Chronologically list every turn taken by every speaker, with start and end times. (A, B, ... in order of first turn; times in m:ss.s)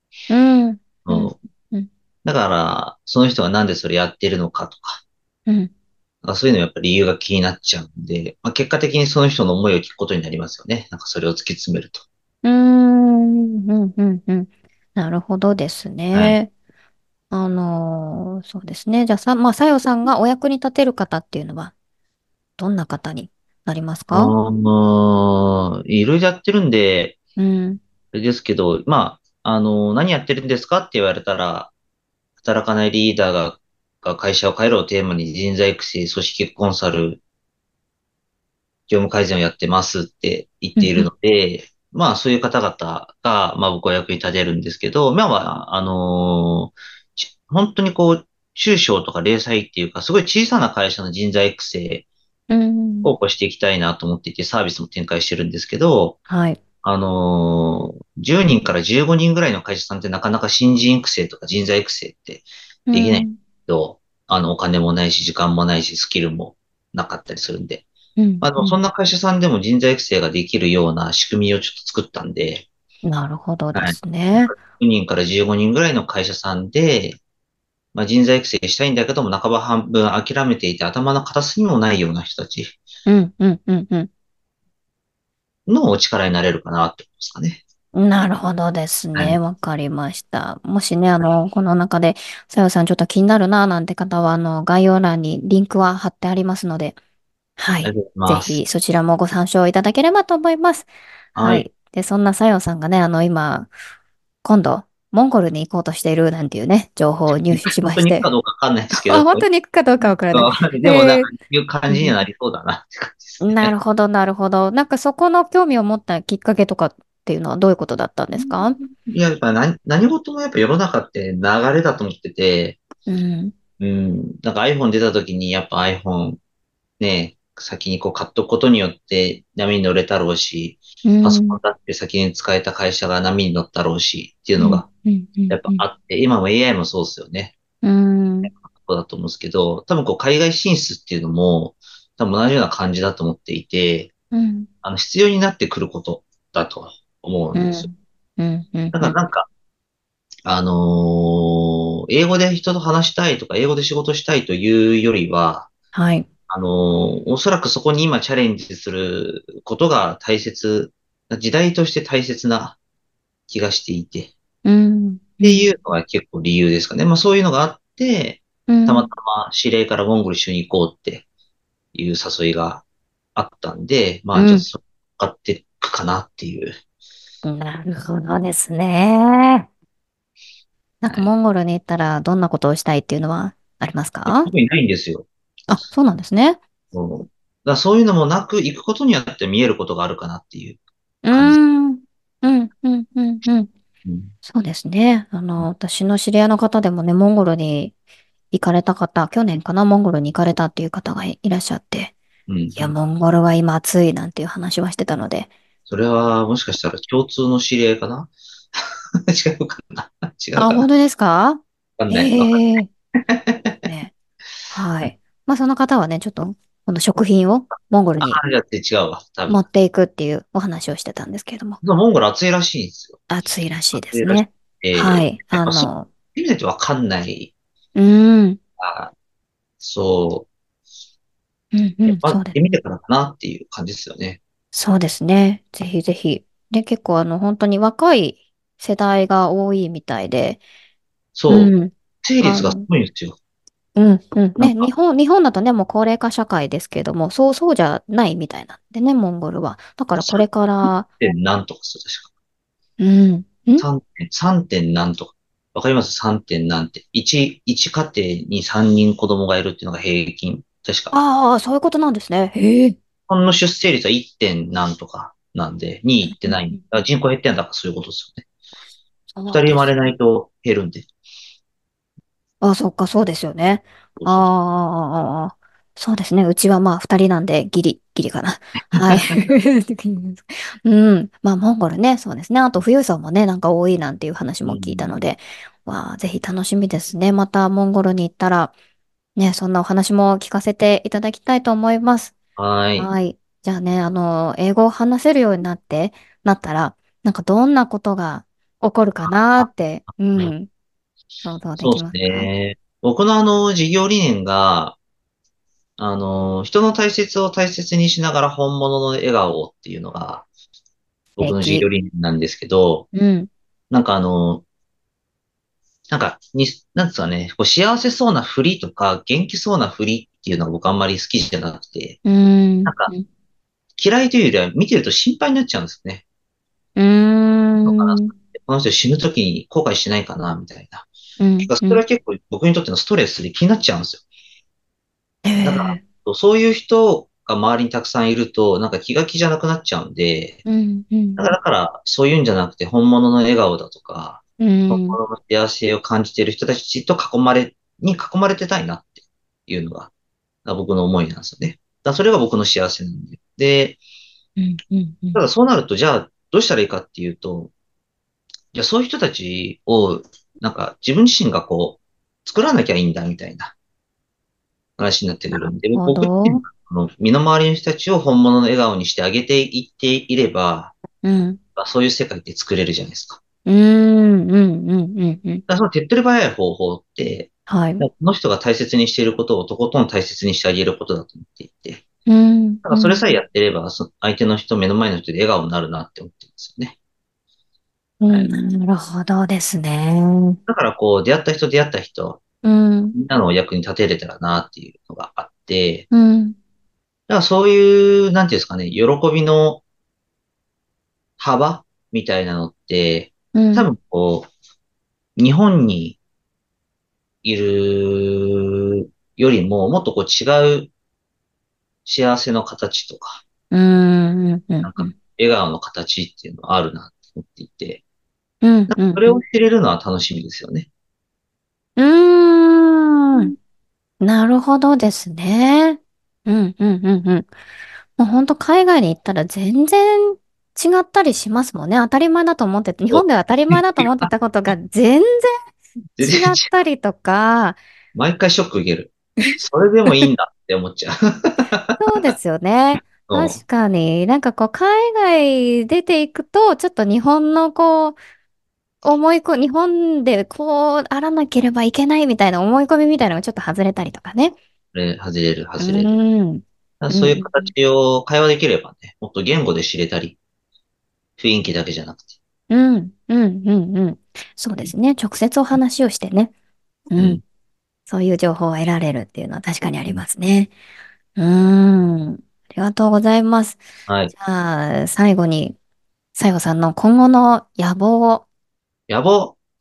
0:00.3-0:01.9 A
0:01.1-0:01.4 B
0:02.2-0:05.0 B
0:06.2-0:12.0 B
0:12.4-0:16.5 A
0:17.3-0:21.7 A
0:22.6-0:24.3 A
0:24.1-0:27.2 B
0:27.4-0:27.8 A
0:28.1-0:31.7 B
0:32.4-0:37.2 B
0:38.9-0:52.1 B
0:40.8-0:41.1 A
0:52.5-0:53.1 A
0:53.0-0:56.2 B
0:56.3-0:56.6 A
0:56.8-1:07.8 B
1:02.9-1:03.4 A
1:08.2-1:08.8 A
1:08.4-1:12.7 B
1:13.0-1:14.6 A
1:13.7-1:17.2 B
1:17.9-1:22.8 B
1:23.1-1:24.1 A
1:25.7-1:27.6 B
1:27.9-1:37.0 A
1:37.6-1:43.7 A
1:37.8-1:38.6 B
1:41.4-1:41.7 B
1:44.4-1:48.3 A
1:47.5-1:49.4 B
1:48.9-1:51.3 A
1:50.0-1:53.7 B
1:51.9-1:52.2 A
1:53.4-1:58.8 A
1:58.4-2:02.8 B
2:03.1-2:03.5 A
2:03.8-2:06.4 B
2:07.0-2:14.9 B
2:11.0-2:11.6 A
2:14.6-2:15.8 A
2:15.5-2:17.5 B
2:17.8-2:18.5 A
2:18.5-2:24.1 B
2:24.3-2:24.7 A
2:24.8-2:27.9 B
2:27.5-2:29.2 A
2:28.9-2:29.5 B
2:30.4-2:35.7 B
2:35.9-2:36.3 A
2:36.5-2:42.8 B
2:43.5-2:44.3 B
2:44.6-2:45.7 A
2:45.4-2:51.2 B
2:48.7-2:49.1 A
2:51.9-2:56.7 B
2:54.3-2:54.7 A
2:57.4-2:59.7 A
3:01.0-3:04.5 A
3:04.3-3:05.3 B
3:05.7-3:06.6 A
3:06.9-3:10.8 B
3:11.2-3:13.7 A
3:11.3-3:11.6 B
3:14.0-3:14.3 B
3:14.4-3:17.9 A
3:18.5-3:22.2 A
3:22.5-3:22.9 B
3:22.8-3:25.5 A
3:25.9-3:30.9 B
3:30.6-3:32.9 A
3:32.0-3:32.6 B
3:33.3-3:33.8 B
3:33.8-3:34.1 A
3:34.7-3:38.4 A
3:38.2-3:39.6 B
3:39.5-3:41.8 A
3:41.8-3:43.2 B
3:43.3-3:46.1 A
3:43.9-3:47.5 B
3:48.0-3:48.6 A
3:48.8-3:49.1 B
3:49.8-3:50.5 B
3:51.7-3:52.6 A
3:52.1-3:54.4 B
3:54.7-4:00.6 A
4:01.4-4:03.4 B
4:01.5-4:02.9 A
4:04.0-4:11.1 A
4:04.6-4:04.9 B
4:10.2-4:12.3 B
4:13.0-4:13.9 A
4:13.8-4:21.2 B
4:21.1-4:23.0 A
4:23.3-4:28.4 B
4:26.2-4:26.8 A
4:29.4-4:30.1 A
4:29.5-4:31.1 B
4:32.6-4:48.7 A
4:34.2-4:34.5 B
4:44.6-4:45.2 B
4:49.4-4:52.3 A
4:52.6-4:53.1 B
4:53.0-5:00.7 A
4:59.2-4:59.7 B
5:00.2-5:00.5 B
5:01.4-5:02.5 A
5:01.8-5:05.0 B
5:06.0-5:10.5 B
5:11.4-5:13.1 B
5:11.4-5:11.9 A
5:13.1-5:13.5 A
5:13.9-5:14.6 B
5:16.1-5:22.2 B
5:22.2-5:23.3 A
5:22.8-5:23.1 B
5:24.0-5:26.2 B
5:27.0-5:28.3 A
5:27.8-5:31.1 B
5:31.4-5:32.0 A
5:31.6-5:34.2 B
5:35.4-5:36.0 A
5:35.6-5:40.6 B
5:40.6-5:41.5 A
5:41.4-5:50.1 B
5:44.6-5:45.2 A
5:50.6-5:54.0 B
5:54.6-5:55.4 A
5:55.4-5:57.7 B
5:58.7-6:03.7 B
6:05.0-6:11.0 B
6:06.0-6:06.6 A
6:11.2-6:11.6 A
6:11.8-6:13.4 B
6:13.7-6:15.6 A
6:15.7-6:22.0 B
6:17.7-6:18.1 A
6:22.3-6:23.3 A
6:22.8-6:27.0 B
6:28.2-6:30.6 A
6:30.7-6:32.4 B
6:32.6-6:33.2 A
6:33.1-6:36.1 B
6:36.1-6:36.6 A
6:37.3-6:39.8 B
6:41.4-6:44.5 B
6:43.5-6:43.9 A
6:45.4-6:46.2 B
6:47.4-6:50.9 B
6:52.1-6:53.4 B
6:53.7-6:55.1 A
6:54.8-6:58.0 B
6:58.6-6:59.4 A
6:58.9-7:00.9 B
7:02.0-7:03.5 A
7:04.2-7:07.5 A
7:08.2-7:15.5 A
7:13.1-7:14.2 B
7:16.2-7:16.7 B
7:16.2-7:17.8 A
7:18.2-7:22.0 B
7:22.0-7:28.2 A
7:23.0-7:23.6 B
7:29.0-7:34.6 A
7:34.9-7:36.1 B
7:35.8-7:37.7 A
7:37.0-7:40.4 B
7:41.4-7:42.3 B
7:42.7-7:46.5 A
7:47.1-7:47.4 A
7:48.1-7:50.7 A
7:51.4-7:55.8 A
7:54.1-7:54.3 B
7:56.4-7:58.4 A
7:59.1-7:59.6 B